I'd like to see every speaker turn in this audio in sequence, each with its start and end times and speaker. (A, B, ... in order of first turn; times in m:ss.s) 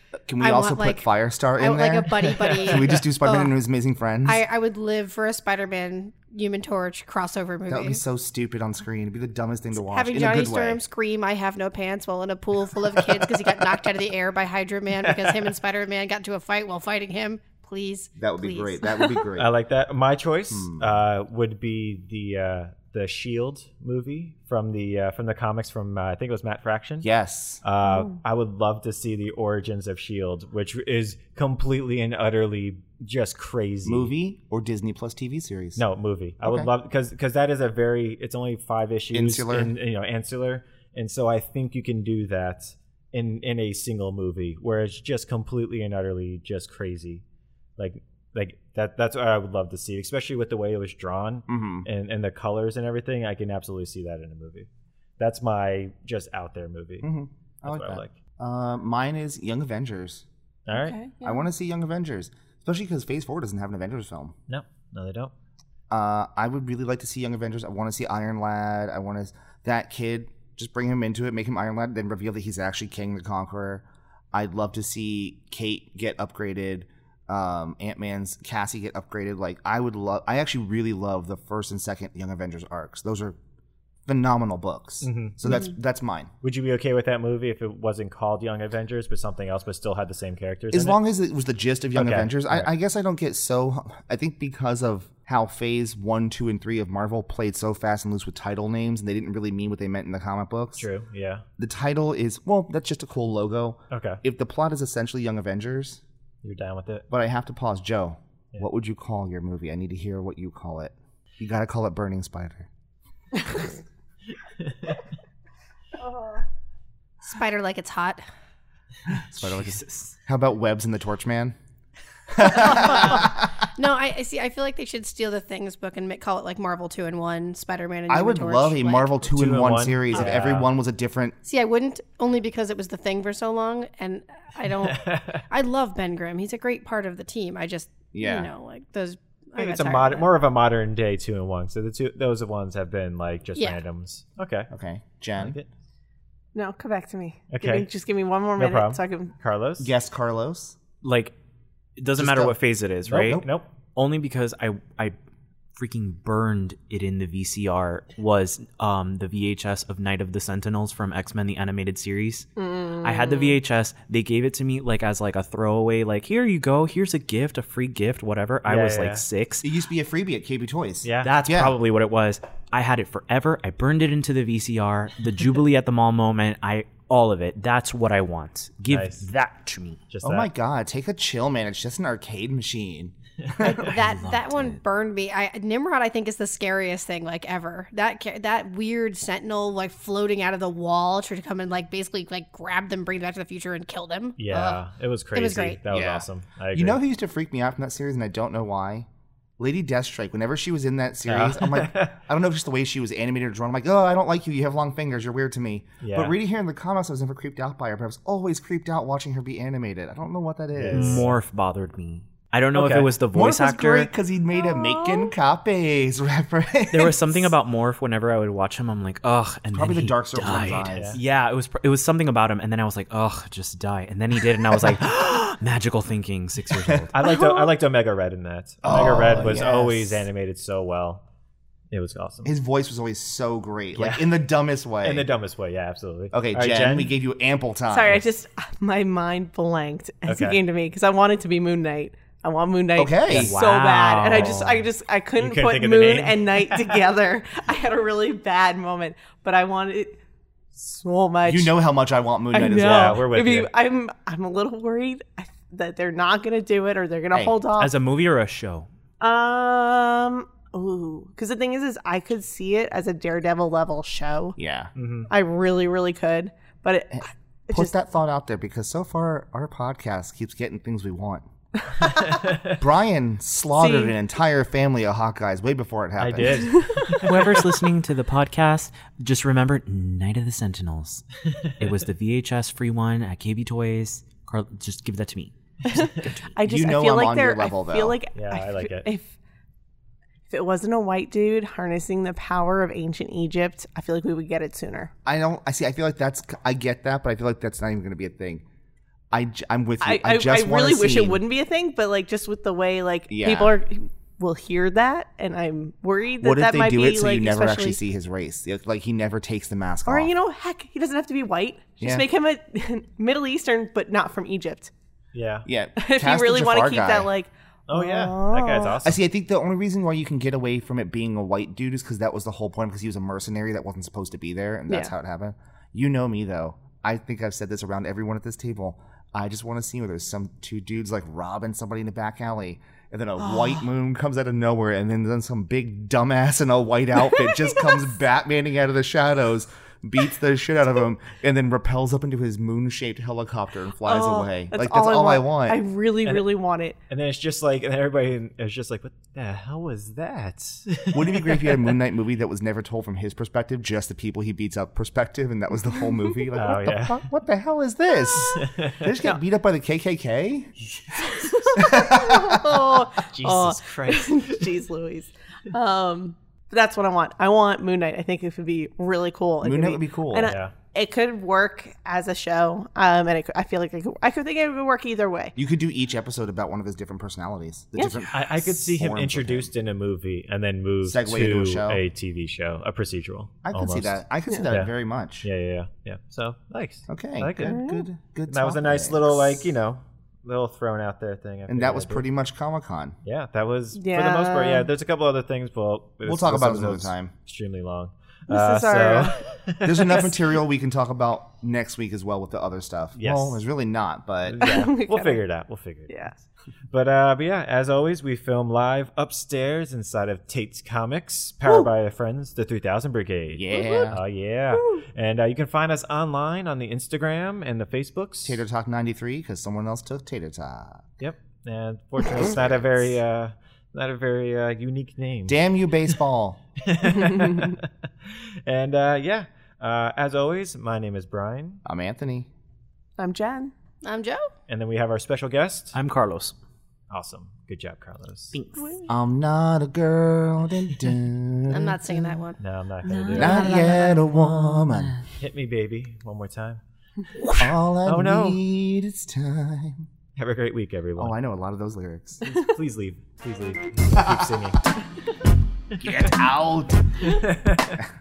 0:00.3-0:04.4 A
0:00.4-0:03.5 B
0:02.2-0:03.0 C
0:04.2-0:08.0 B
0:07.7-0:10.8 A
0:09.7-0:19.2 B
0:15.0-0:15.5 C
0:18.2-0:19.5 A
0:19.4-0:27.1 C
0:20.5-0:21.0 A
0:27.0-0:27.6 A
0:27.6-0:34.1 C
0:27.8-0:28.2 D
0:33.8-0:35.8 A
0:35.8-0:47.2 C
0:36.4-0:36.7 A
0:39.1-0:39.7 A
0:47.8-0:54.7 C
0:51.5-0:51.9 A
0:55.2-0:57.1 C
0:57.0-1:00.2 A
0:57.6-0:58.1 C
1:00.7-1:01.0 C
1:00.7-1:01.4 D
1:01.2-1:04.4 A
1:04.5-1:05.3 C
1:05.9-1:23.4 A
1:24.1-1:26.3 A
1:25.0-1:25.6 C
1:26.4-1:31.0 C
1:30.7-1:40.9 A
1:32.0-1:32.7 C
1:40.8-1:41.4 C
1:41.6-1:46.0 A
1:43.9-1:44.2 C
1:46.4-1:47.1 C
1:47.1-1:52.7 A
1:54.6-1:55.0 C
1:56.0-1:56.4 D
1:57.2-1:58.2 B
1:59.3-2:01.6 A
1:59.4-2:00.2 E
2:02.3-2:03.5 A
2:02.4-2:09.1 B
2:08.1-2:11.4 A
2:09.3-2:10.7 C
2:11.4-2:20.3 B
2:14.8-2:15.4 C
2:18.1-2:18.5 A
2:19.6-2:24.7 C
2:23.6-2:23.8 B
2:24.7-2:25.6 A
2:25.4-2:25.7 C
2:26.6-2:29.3 D
2:27.5-2:27.9 C
2:28.6-2:29.9 C
2:29.8-2:30.8 A
2:31.0-2:31.3 E
2:32.0-2:33.4 E
2:32.2-2:32.6 A
2:33.1-2:33.7 C
2:34.0-2:35.2 E
2:35.8-2:49.7 E
2:42.6-2:43.6 D
2:48.7-2:49.2 C
2:49.6-2:51.8 A
2:51.0-2:51.4 C
2:51.2-3:00.0 E
2:58.9-2:59.3 C
3:00.1-3:00.5 C
3:00.2-3:03.9 A
3:03.5-3:03.9 C
3:03.6-3:15.8 B
3:03.8-3:04.8 E
3:14.4-3:17.0 C
3:15.9-3:19.1 A
3:19.6-3:31.3 A
3:21.3-3:22.2 C
3:26.0-3:26.4 C
3:30.7-3:31.4 C
3:30.9-3:34.1 E
3:32.7-3:33.1 C
3:33.3-3:37.5 A
3:34.6-3:35.3 D
3:36.9-3:47.1 E
3:39.7-3:41.2 A
3:40.9-3:41.2 C
3:47.1-3:51.2 C
3:47.2-3:47.7 D
3:48.8-3:50.3 A
3:51.9-3:52.5 C
3:52.4-3:55.3 A
3:54.0-3:54.3 C
3:55.0-3:57.1 C
3:56.3-3:58.3 A
3:57.9-4:10.2 D
4:00.3-4:00.6 C
4:03.0-4:03.5 A
4:03.3-4:04.9 E
4:05.4-4:07.0 C
4:10.8-4:11.7 D
4:11.4-4:13.2 A
4:12.5-4:17.9 D
4:12.7-4:13.7 C
4:17.3-4:17.6 A
4:17.8-4:18.9 E
4:19.2-4:24.6 D
4:24.6-4:24.9 A
4:25.0-4:25.3 C
4:25.3-4:27.9 D
4:27.1-4:31.4 A
4:32.0-4:32.8 C
4:32.8-4:36.8 A
4:33.8-4:34.1 D
4:36.2-4:37.6 C
4:36.7-4:37.0 D
4:37.2-4:41.2 E
4:41.5-4:41.7 C
4:41.8-4:46.5 E
4:45.8-4:49.3 D
4:45.9-4:46.2 C
4:46.6-4:48.2 A
4:48.3-4:49.1 C
4:50.5-4:55.1 D
4:55.2-4:58.6 A
4:59.3-5:01.4 A
5:00.0-5:08.0 D
5:03.3-5:03.8 A
5:06.4-5:10.3 A
5:10.1-5:14.9 D
5:12.0-5:12.3 A
5:15.3-5:15.7 C
5:15.7-5:17.3 A
5:16.0-5:19.0 D
5:17.9-5:19.2 C
5:19.0-5:45.8 A
5:33.4-5:33.8 D
5:37.3-5:38.0 D
5:44.0-5:47.0 D
5:46.2-5:46.5 C
5:47.1-5:51.9 C
5:51.1-6:00.7 A
5:56.6-5:57.3 C
5:58.6-5:59.1 C
6:01.2-6:15.5 D
6:01.8-6:03.0 A
6:03.2-6:04.7 C
6:09.6-6:10.6 A
6:10.5-6:10.7 C
6:15.6-6:19.7 A
6:18.0-6:18.3 D
6:18.0-6:18.3 E
6:18.3-6:24.9 C
6:21.0-6:22.0 A
6:23.6-6:25.5 A
6:25.4-6:27.8 C
6:27.1-6:29.7 A
6:27.6-6:28.0 D
6:28.5-6:32.2 C
6:31.7-6:33.2 A
6:33.2-6:40.3 C
6:33.9-6:34.9 D
6:36.2-6:37.3 A
6:38.5-6:39.4 D
6:39.8-6:44.7 A
6:43.2-6:43.6 C
6:44.5-6:58.6 C
6:44.6-6:45.4 D
6:53.5-6:54.2 A
6:53.7-6:54.1 D
6:54.7-6:55.0 D
6:58.4-7:01.1 A
7:01.2-7:05.6 C
7:02.3-7:02.8 A
7:05.5-7:06.6 A
7:06.8-7:11.8 C
7:07.4-7:07.7 D
7:11.8-7:12.5 A
7:13.2-7:13.7 D
7:14.0-7:14.5 B
7:14.7-7:16.0 C
7:15.9-7:16.6 E
7:17.1-7:18.6 C
7:18.5-7:18.9 E
7:18.8-7:19.1 D
7:19.1-7:22.0 A
7:21.7-7:22.6 B
7:22.6-7:23.8 C
7:23.0-7:25.2 E
7:23.3-7:24.0 D
7:23.4-7:25.2 A
7:25.4-7:26.8 C
7:27.6-7:30.1 A
7:27.6-7:28.6 C
7:30.4-7:31.4 C
7:31.2-7:32.4 A
7:32.4-7:34.8 C
7:34.1-7:34.6 A
7:36.0-7:37.2 A
7:37.2-7:38.0 C